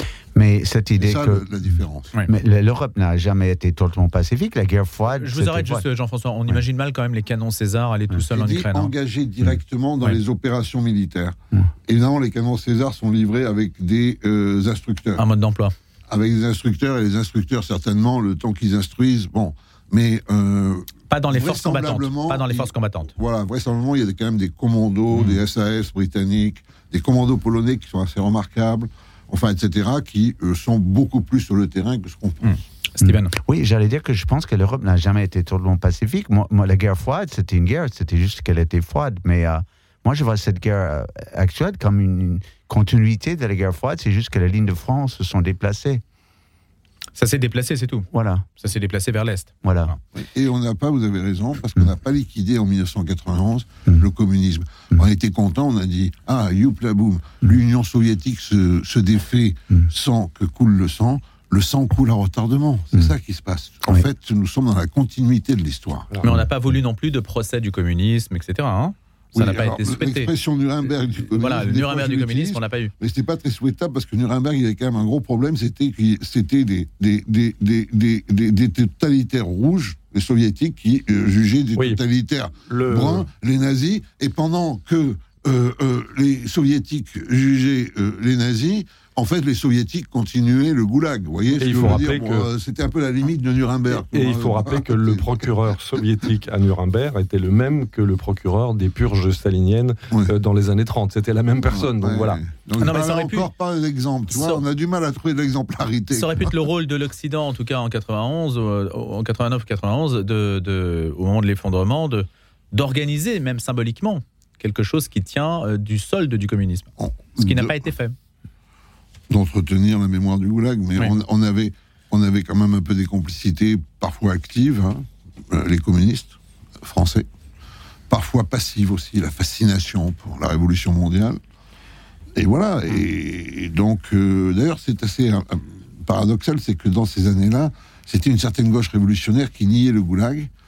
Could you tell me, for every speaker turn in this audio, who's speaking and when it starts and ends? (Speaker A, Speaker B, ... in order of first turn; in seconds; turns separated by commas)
Speaker A: 0.3-1.7, Speaker B: 0.9-2.1, Speaker A: 2.3-5.8, Speaker C: 5.1-8.9, Speaker B: 8.3-15.2, Speaker C: 15.2-15.7, Speaker B: 16.1-32.6, Speaker C: 21.1-23.1, Speaker C: 32.4-33.3, Speaker A: 33.0-46.0, Speaker C: 47.1-50.0, Speaker A: 48.1-48.5, Speaker A: 49.6-49.9, Speaker B: 50.1-66.1, Speaker C: 66.2-70.3, Speaker B: 69.3-95.5, Speaker C: 71.3-72.9, Speaker D: 82.7-83.2, Speaker D: 91.6-92.5, Speaker D: 93.9-102.4, Speaker B: 101.7-106.6, Speaker C: 102.8-103.5, Speaker C: 104.3-104.6, Speaker C: 106.1-118.1, Speaker B: 117.0-117.9, Speaker B: 119.3-127.3, Speaker B: 128.1-131.4, Speaker B: 132.3-140.5